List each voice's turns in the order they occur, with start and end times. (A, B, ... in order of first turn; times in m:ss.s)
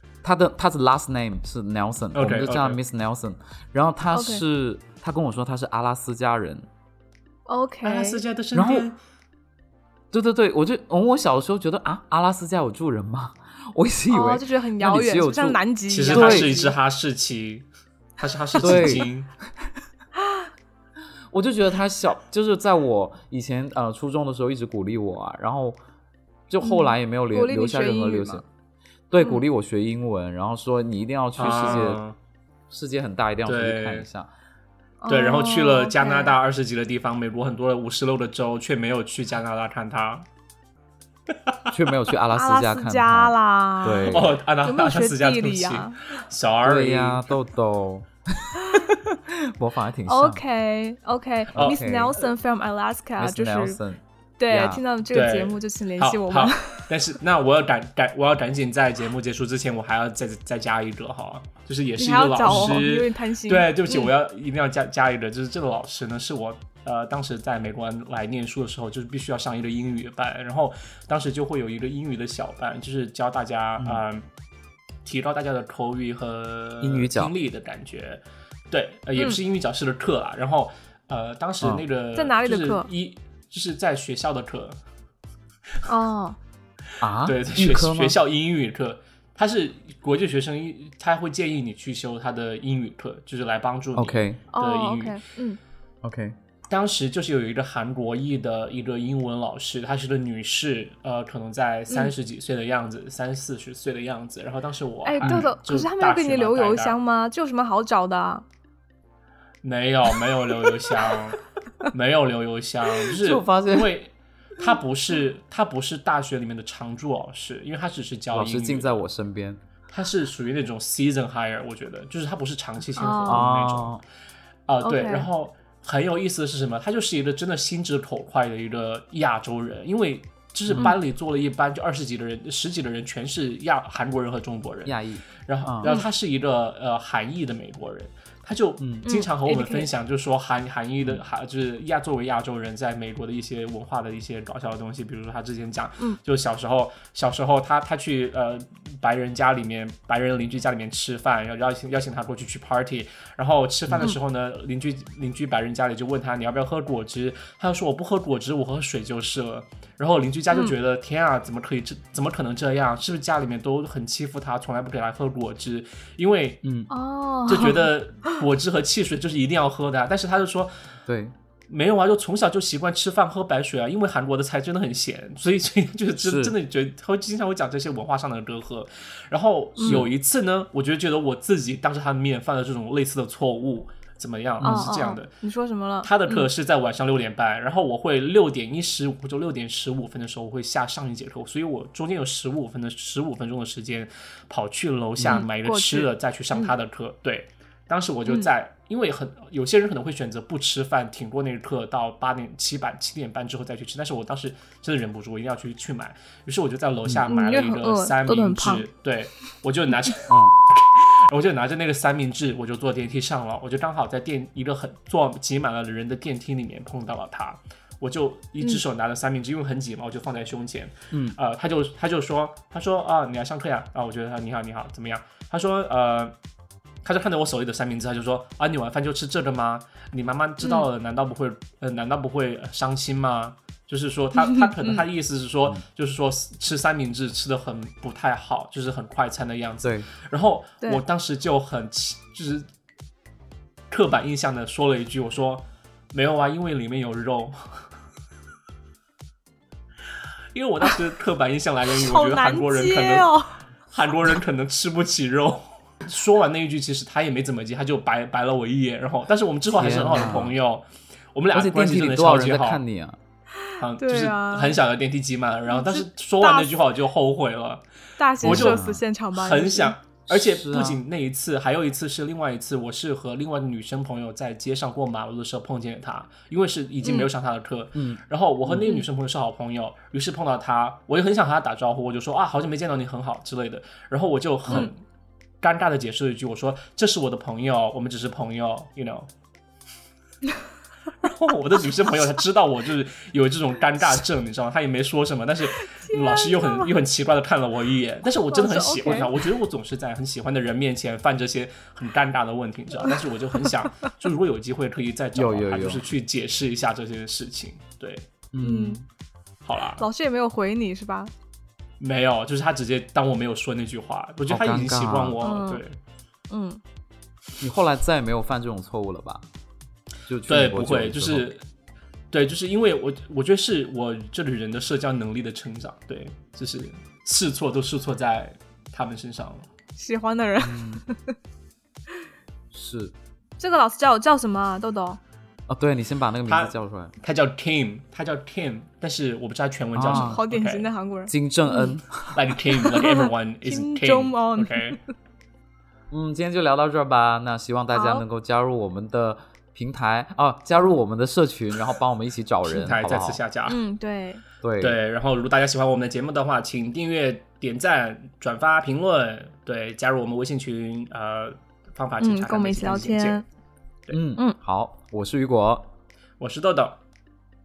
0:00.2-0:06.7 A
0:02.2-0:02.8 B
0:04.1-0:04.4 C
0:07.5-0:08.2 C
0:07.8-0:09.0 B
0:08.5-0:08.9 A
0:10.1-0:16.5 A
0:14.1-0:16.8 C
0:15.9-0:17.7 B
0:18.2-0:19.3 B
0:18.6-0:19.1 A
0:21.3-0:25.8 A
0:26.5-0:28.4 A
0:26.6-0:28.4 C
0:29.1-0:32.0 A
0:31.4-0:32.2 B
0:32.7-0:34.3 A
0:33.4-0:34.1 B
0:35.0-0:36.4 C
0:35.1-0:40.3 B
0:41.5-0:41.8 B
0:41.7-0:44.4 A
0:42.3-0:46.2 C
0:44.0-0:47.3 B
0:46.6-0:50.4 A
0:48.6-0:49.0 C
0:50.1-0:53.8 C
0:51.6-0:52.1 A
0:53.2-0:54.8 A
0:54.4-0:56.9 C
0:55.1-1:14.2 B
1:02.0-1:04.1 C
1:13.8-1:14.0 A
1:15.0-1:24.8 B
1:16.8-1:17.3 A
1:22.1-1:22.9 C
1:25.9-1:26.4 C
1:27.0-1:28.2 A
1:27.2-1:35.2 B
1:34.0-1:34.4 A
1:34.5-1:35.6 C
1:36.0-1:36.4 A
1:36.7-1:47.0 B
1:45.0-1:48.4 C
1:49.6-1:58.9 B
1:53.1-1:53.9 A
1:58.3-1:59.6 A
1:59.9-2:04.0 B
2:03.0-2:03.5 C
2:03.3-2:04.0 A
2:04.7-2:46.6 B
2:04.8-2:05.3 C
2:10.7-2:11.0 A
2:14.8-2:15.9 A
2:18.8-2:19.1 A
2:19.0-2:19.9 C
2:46.6-2:46.9 A
2:46.9-2:48.4 C
2:47.5-2:50.7 B
2:51.1-2:51.3 A
2:51.7-3:05.3 B
2:56.2-2:56.5 A
2:59.8-3:00.0 C
3:04.6-3:04.9 A
3:04.6-3:06.5 C
3:06.0-3:46.4 B
3:15.2-3:15.4 A
3:15.3-3:16.7 C
3:27.3-3:28.9 C
3:30.3-3:30.6 A
3:41.1-3:41.4 A
3:47.0-4:02.7 B
3:54.4-3:55.0 C
3:59.8-4:00.1 A
4:03.9-4:07.8 B
4:10.5-4:13.3 B
4:11.9-4:13.6 C
4:13.9-4:22.8 B
4:19.7-4:20.6 A
4:21.5-4:23.2 A
4:23.6-4:24.8 C
4:23.8-4:27.8 B
4:25.7-4:26.8 C
4:28.2-4:30.0 C
4:28.4-4:28.8 B
4:28.4-4:29.0 A
4:29.3-4:45.0 B
4:30.3-4:31.0 A
4:37.0-4:37.3 C
4:38.0-4:38.9 A
4:45.6-4:49.3 B
4:51.2-5:08.3 B
4:55.7-4:56.9 C
4:58.5-4:59.4 C
5:05.4-5:06.1 A
5:08.5-5:09.0 A
5:08.6-5:09.0 C
5:09.6-5:10.1 B
5:10.0-5:11.3 C
5:12.0-5:16.0 B
5:14.5-5:15.4 A
5:15.4-5:15.8 C
5:16.5-5:16.8 C
5:17.6-5:19.5 A
5:20.3-5:21.5 A
5:20.5-5:21.6 B
5:22.3-5:29.7 B
5:30.0-5:31.4 C
5:30.6-5:31.0 A
5:32.7-5:33.1 A
5:33.6-5:35.2 C
5:35.7-5:37.1 A
5:36.5-5:40.9 B
5:40.0-5:40.4 A
5:40.1-5:42.0 C
5:41.3-5:42.4 A
5:42.4-5:45.0 B
5:42.9-5:45.0 C
5:46.1-5:53.4 A
5:47.9-5:48.2 C
5:52.6-5:53.8 B
5:53.7-5:54.4 C
5:54.6-5:55.0 A
5:54.8-6:03.4 B
6:02.2-6:03.4 C
6:04.1-6:05.9 A
6:06.4-6:07.0 B